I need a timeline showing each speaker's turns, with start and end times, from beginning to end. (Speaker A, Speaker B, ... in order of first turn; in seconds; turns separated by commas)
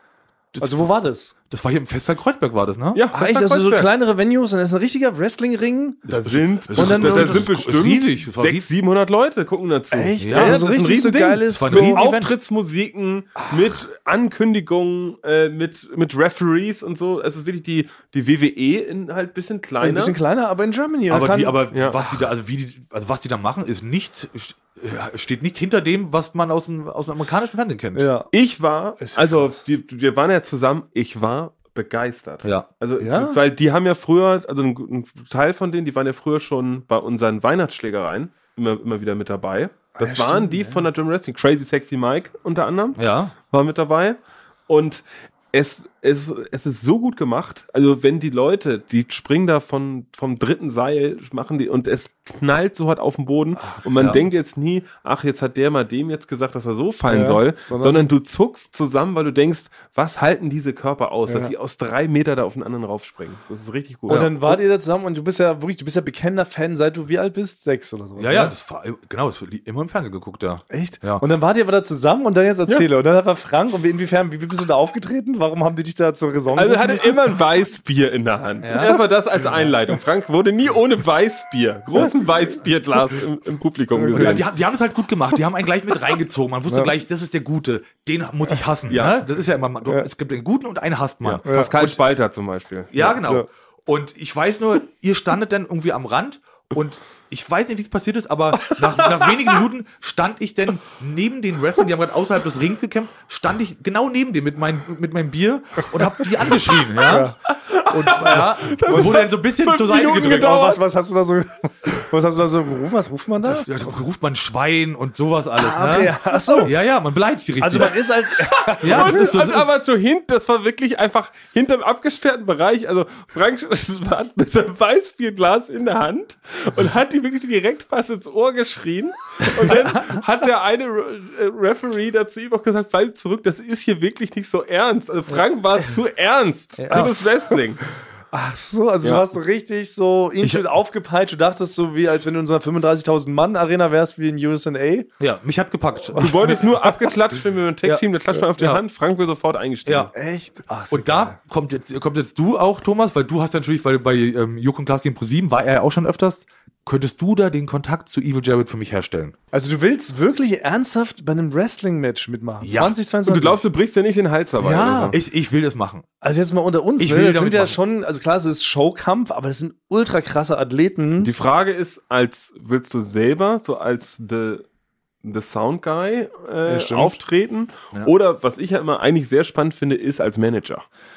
Speaker A: 0.5-0.9, Speaker B: 0.6-1.3, Speaker A: 1.5-3.0, Speaker C: 2.9-3.9, Speaker B: 3.1-6.1, Speaker C: 6.1-20.1, Speaker A: 6.1-8.7, Speaker B: 6.7-7.5, Speaker B: 9.9-12.0, Speaker A: 10.2-10.6, Speaker A: 11.5-12.3, Speaker B: 19.8-21.6, Speaker A: 21.1-28.1, Speaker C: 21.7-22.0, Speaker B: 27.9-28.3, Speaker C: 28.3-64.5, Speaker B: 29.0-29.6, Speaker B: 33.0-33.4, Speaker B: 40.0-40.8, Speaker A: 43.0-43.3, Speaker A: 53.9-54.2, Speaker B: 57.1-58.0, Speaker B: 61.3-61.5, Speaker B: 64.1-68.5, Speaker A: 68.2-71.2, Speaker B: 70.7-77.2, Speaker C: 76.5-84.4, Speaker A: 78.6-79.0, Speaker B: 83.9-84.4, Speaker A: 84.1-92.0, Speaker B: 86.7-86.9, Speaker C: 88.9-89.2, Speaker C: 91.2-93.2, Speaker B: 91.4-91.7, Speaker A: 92.9-110.6, Speaker B: 93.2-93.5, Speaker C: 98.7-99.5, Speaker B: 107.0-107.4, Speaker C: 107.7-110.8, Speaker B: 108.0-109.2, Speaker B: 110.2-113.7, Speaker A: 113.4-118.0, Speaker B: 115.5-116.8, Speaker B: 117.6-119.4, Speaker C: 118.6-137.8, Speaker A: 118.8-119.7, Speaker A: 136.8-137.2, Speaker B: 136.9-137.3, Speaker B: 138.3-145.1, Speaker A: 145.2-146.6, Speaker C: 146.2-150.1, Speaker B: 146.2-146.5, Speaker A: 149.8-150.1, Speaker B: 150.1-151.3, Speaker A: 150.9-159.3, Speaker B: 159.5-163.6, Speaker A: 162.6-162.9, Speaker C: 163.2-165.2, Speaker B: 164.6-165.2, Speaker A: 165.1-166.0, Speaker B: 166.2-171.3, Speaker A: 167.0-167.8, Speaker C: 171.2-174.7, Speaker C: 175.2-180.8, Speaker B: 176.6-177.2